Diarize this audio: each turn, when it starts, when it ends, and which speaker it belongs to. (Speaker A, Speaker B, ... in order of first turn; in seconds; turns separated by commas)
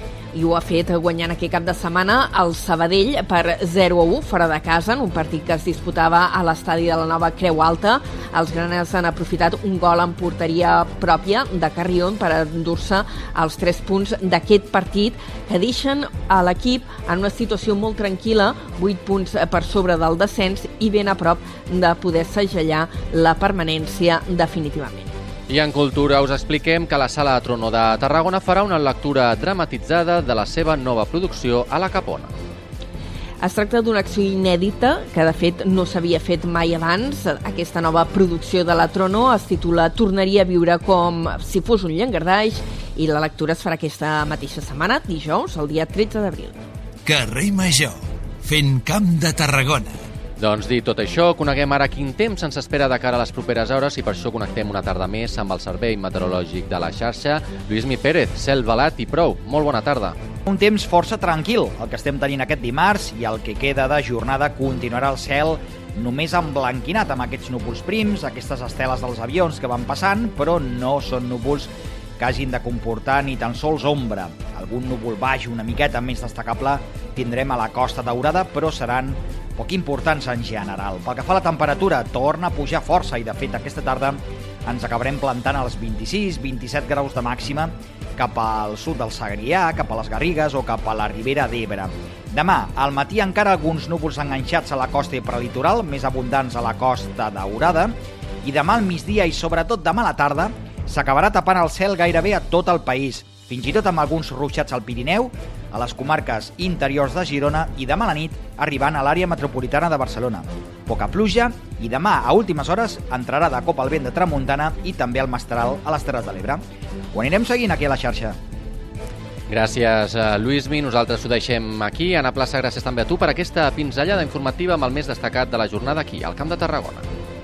Speaker A: 0.3-25.1, Speaker B: 25.5-32.3, Speaker A: 33.4-46.6, Speaker C: 47.1-49.9, Speaker B: 50.4-60.2, Speaker D: 60.5-116.6, Speaker D: 117.1-118.4, Speaker B: 119.5-127.1